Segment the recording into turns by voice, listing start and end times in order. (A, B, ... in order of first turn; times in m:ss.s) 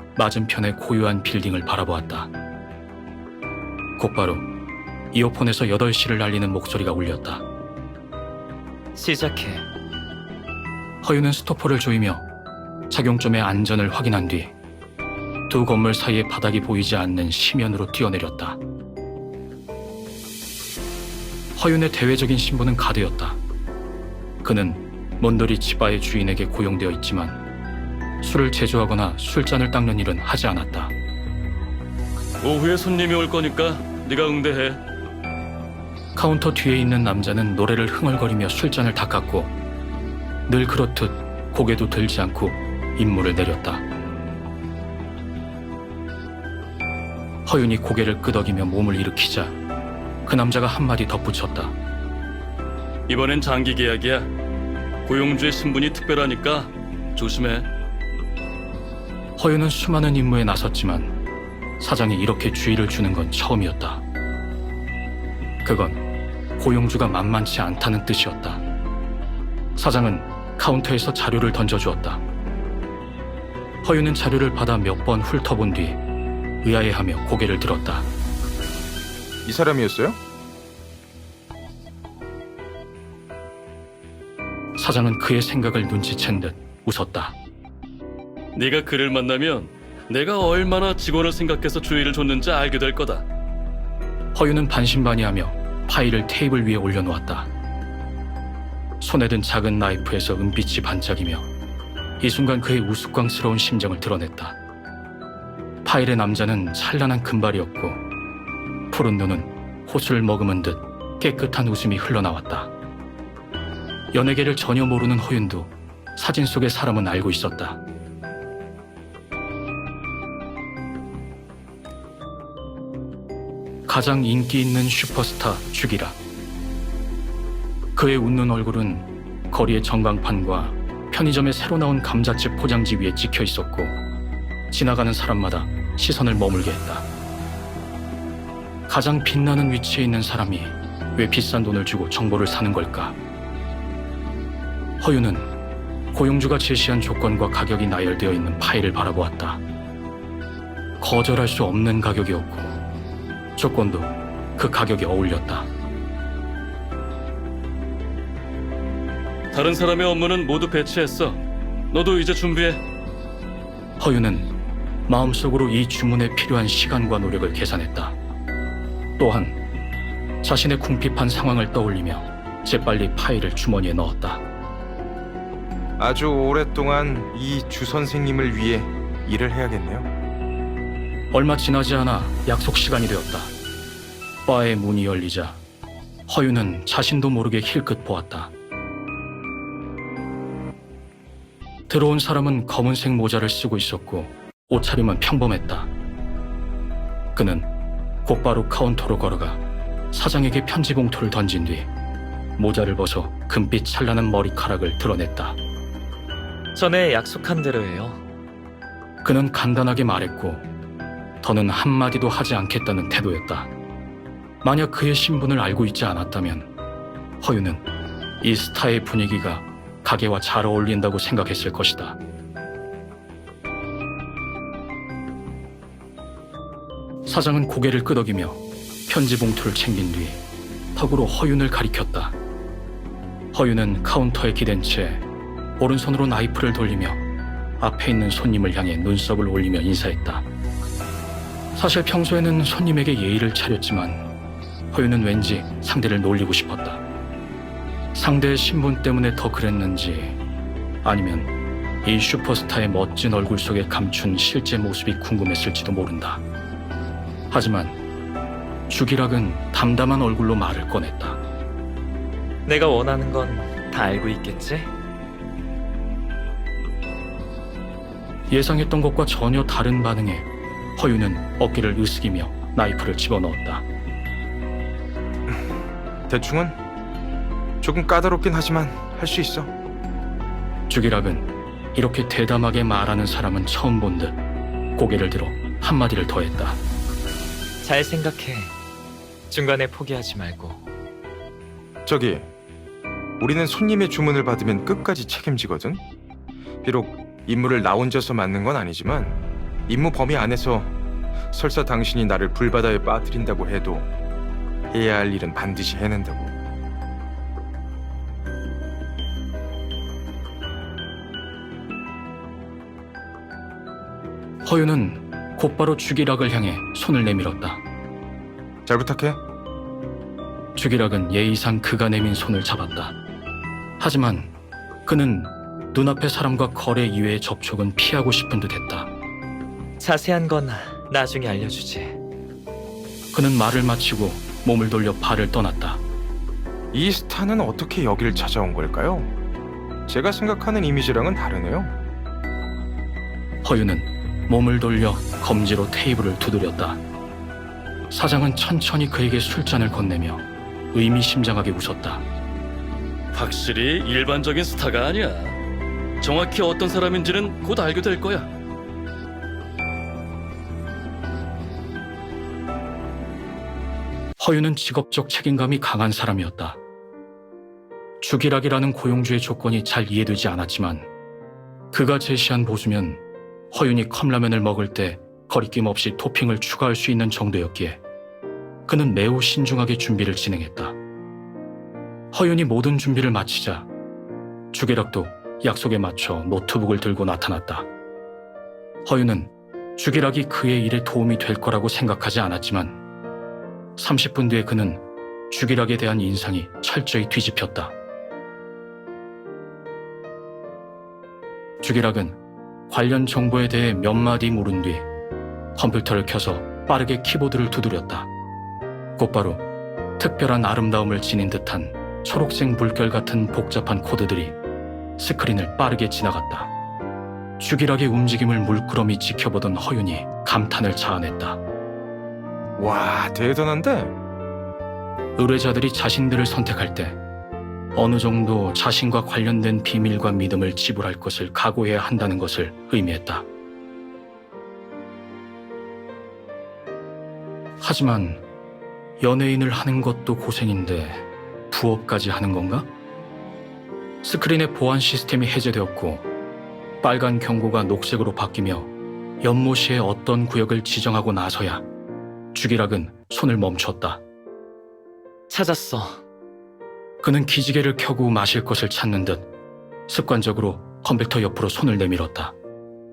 0:00.2-0:02.3 A
0:04.0-0:04.5 A
0:05.1-0:07.4 A
0:09.0-0:09.7 B
0:11.0-0:12.3 A
0:12.9-0:14.5 A
0:15.5-0:18.6 A
0:21.6-0:23.4 A
0:24.4-0:27.4 A
0:28.2-0:30.9 A
0:32.4-0:34.8 C
0:36.2-0:39.5 A
0:40.5-0:43.8 A
0:47.5-0:49.6 A
0:50.2-0:51.8 A
0:53.1-0:54.3 C
0:55.1-0:57.7 C
0:59.4-1:01.1 A
1:01.8-1:04.0 A
1:05.6-1:06.0 A
1:06.6-1:08.6 A
1:09.8-1:12.2 A
1:13.8-1:16.0 A
1:16.6-1:18.1 A
1:19.4-1:20.2 D
1:24.8-1:27.4 A
1:28.6-1:33.2 C
1:34.4-1:37.5 A
1:39.0-1:41.5 A
1:42.2-1:44.6 A
1:45.8-1:48.0 A
1:48.9-1:52.7 A
1:54.1-1:57.8 A
2:03.9-2:06.2 A
2:08.0-2:14.0 A
2:14.7-2:17.1 A
2:18.9-2:23.2 A
2:25.0-2:25.5 A
2:26.1-2:29.6 A
2:31.0-2:32.8 A
2:33.6-2:35.7 A
2:39.5-2:42.8 C
2:44.0-2:44.5 A
2:45.1-2:48.2 A
2:49.2-2:49.6 A
2:50.4-2:54.4 A
2:56.0-3:00.1 D
3:01.3-3:03.5 A
3:04.5-3:05.6 A
3:06.3-3:08.5 A
3:11.9-3:15.9 A
3:17.3-3:17.7 A
3:18.2-3:19.6 A
3:20.1-3:21.9 A
3:22.6-3:25.6 A
3:26.8-3:28.2 B
3:29.2-3:30.7 A
3:31.4-3:33.7 A
3:34.6-3:36.7 A
3:37.4-3:37.8 A
3:38.4-3:42.2 A
3:47.2-3:50.4 A
3:51.0-3:52.4 A
3:53.5-3:55.2 A
3:55.8-3:57.2 A
3:57.8-4:00.5 A
4:01.8-4:04.3 A
4:04.9-4:07.0 A
4:08.1-4:10.4 A
4:11.0-4:11.5 A
4:12.0-4:16.4 A
4:17.5-4:18.0 A
4:18.9-4:21.4 A
4:22.7-4:24.9 B
4:28.5-4:33.9 A
4:35.5-4:36.8 D
4:37.8-4:39.7 D
4:40.9-4:44.4 A
4:45.0-4:46.8 A
4:47.8-4:48.7 B
4:49.5-4:50.8 B
4:52.1-4:52.5 D
4:53.4-4:56.0 D
4:56.8-5:01.0 D
5:01.5-5:04.1 D
5:04.9-5:06.6 D
5:14.6-5:17.8 A
5:18.9-5:19.4 D
5:20.8-5:23.2 A
5:24.0-5:24.5 A
5:25.1-5:29.1 A
5:30.0-5:32.2 B
5:33.3-5:36.0 A
5:36.9-5:39.3 D
5:40.1-5:41.9 D
5:43.6-5:47.0 A
5:48.1-5:52.3 A
5:53.3-5:55.6 C
5:56.2-5:58.5 C
6:04.4-6:06.8 A
6:08.2-6:11.1 A
6:11.9-6:18.0 A
6:18.9-6:21.0 A
6:22.3-6:23.9 A
6:24.7-6:27.9 A
6:29.0-6:33.0 A
6:34.0-6:37.9 A
6:41.8-6:45.1 A
6:45.8-6:48.3 A
6:49.2-6:49.6 A
6:50.2-6:54.6 A
6:55.2-6:56.7 A
6:57.6-7:01.6 A
7:02.8-7:04.1 D
7:05.4-7:07.2 A
7:07.9-7:13.5 A
7:17.8-7:18.4 A
7:19.2-7:22.9 A
7:24.2-7:26.3 A
7:27.0-7:31.8 A
7:32.5-7:34.2 A
7:35.5-7:36.2 B
7:37.2-7:39.5 A
7:40.1-7:42.6 A